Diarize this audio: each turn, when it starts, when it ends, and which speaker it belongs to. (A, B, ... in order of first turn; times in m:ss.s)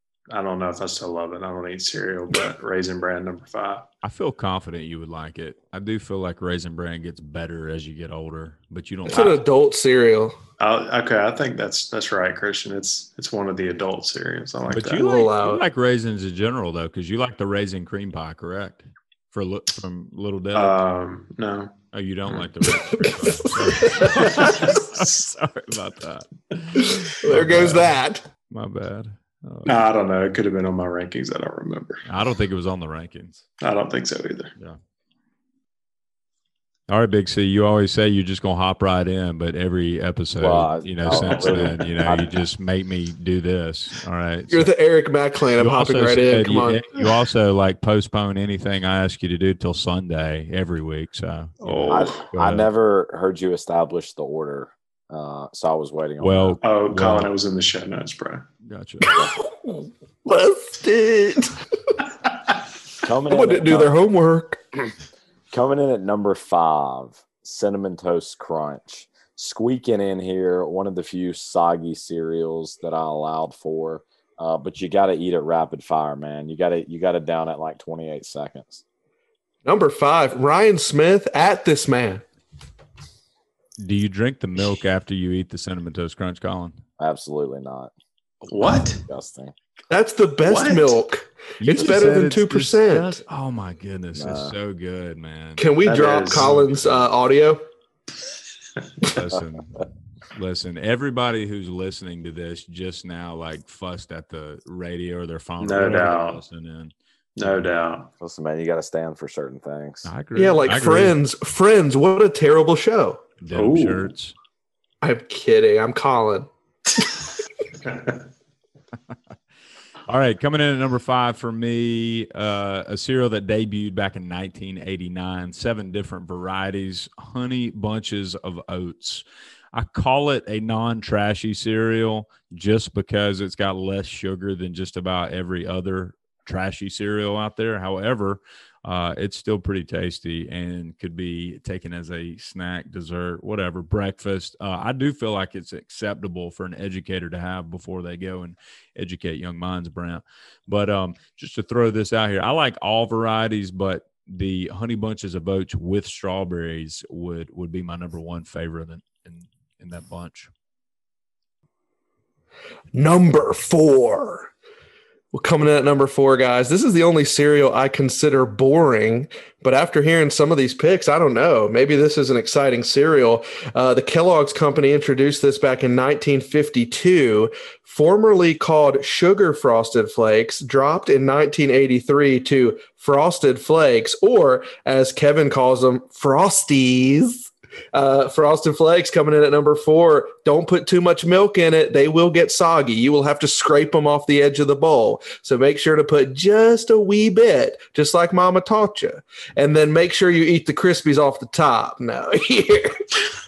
0:00.3-0:03.9 A
0:04.0-0:09.4 B
0:09.1-0:10.4 C
0:10.6-0:15.0 A
0:14.7-0:20.8 B
0:15.0-0:15.6 C
0:20.6-0:22.5 A
0:21.9-0:28.0 B
0:22.9-0:24.7 C
0:24.4-0:25.0 A
0:27.2-0:28.2 C
0:28.5-0:29.7 B
0:29.7-0:32.1 A
0:32.1-0:33.4 B
0:33.6-0:34.5 A
0:36.9-0:44.7 B
0:40.4-0:42.4 D
0:41.1-0:41.8 A
0:44.5-0:46.9 C
0:45.6-0:52.7 B
0:51.6-0:52.2 A
0:51.9-0:56.6 D
0:56.2-0:57.3 B
0:56.6-0:58.5 A
0:58.6-0:59.1 B
0:59.0-1:01.6 C
1:03.0-1:03.9 D
1:03.3-1:04.6 C
1:05.5-1:18.8 D
1:19.6-1:22.2 C
1:23.8-1:26.8 B
1:27.0-1:27.9 D
1:28.5-1:29.0 A
1:28.9-1:29.5 D
1:29.9-1:33.2 C
1:30.4-1:31.0 A
1:31.6-1:35.7 B
1:34.2-1:34.5 D
1:35.6-1:37.6 C
1:35.8-1:36.6 A
1:36.3-1:37.1 B
1:39.0-1:47.6 B
1:45.6-1:46.4 A
1:47.4-1:48.1 A
1:48.2-1:50.1 D
1:50.0-1:51.2 B
1:50.4-1:53.2 C
1:53.4-1:54.4 B
1:53.5-1:54.1 A
1:55.0-1:57.2 C
2:00.1-2:40.5 B
2:42.9-2:44.5 C
2:45.3-3:23.0 C